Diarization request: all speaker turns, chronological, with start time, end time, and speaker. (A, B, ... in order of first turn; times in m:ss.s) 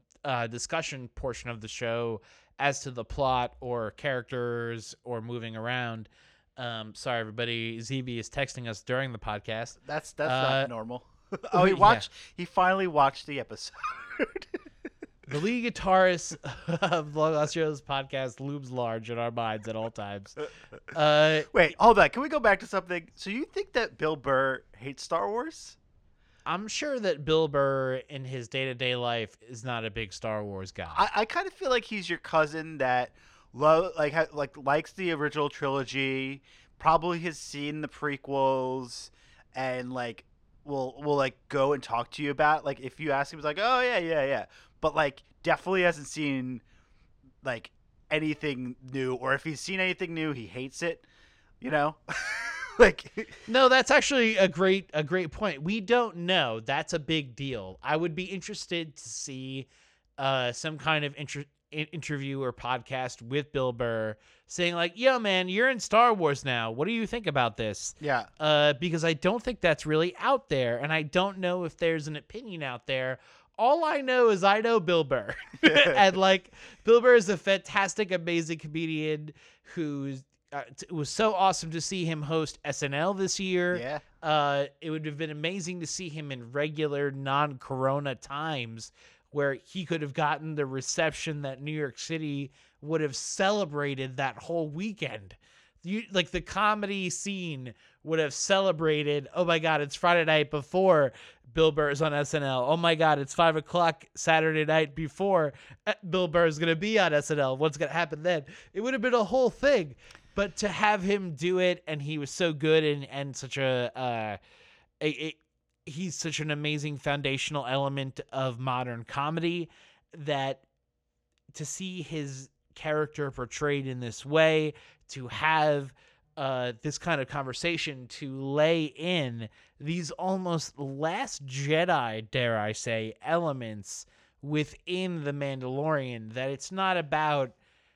0:00.2-0:10.7 A
0:09.8-0:14.6 B
0:11.5-0:12.0 A
0:15.3-0:21.5 A
0:21.5-0:25.8 B
0:26.4-0:31.0 A
0:30.9-0:46.6 B
0:47.4-0:51.0 B
0:51.6-0:53.4 B
0:53.5-0:59.6 A
1:00.2-1:54.4 A
1:08.0-1:08.3 B
1:15.6-1:16.0 B
1:23.7-1:24.0 B
1:55.0-2:00.6 A
2:01.5-2:17.6 A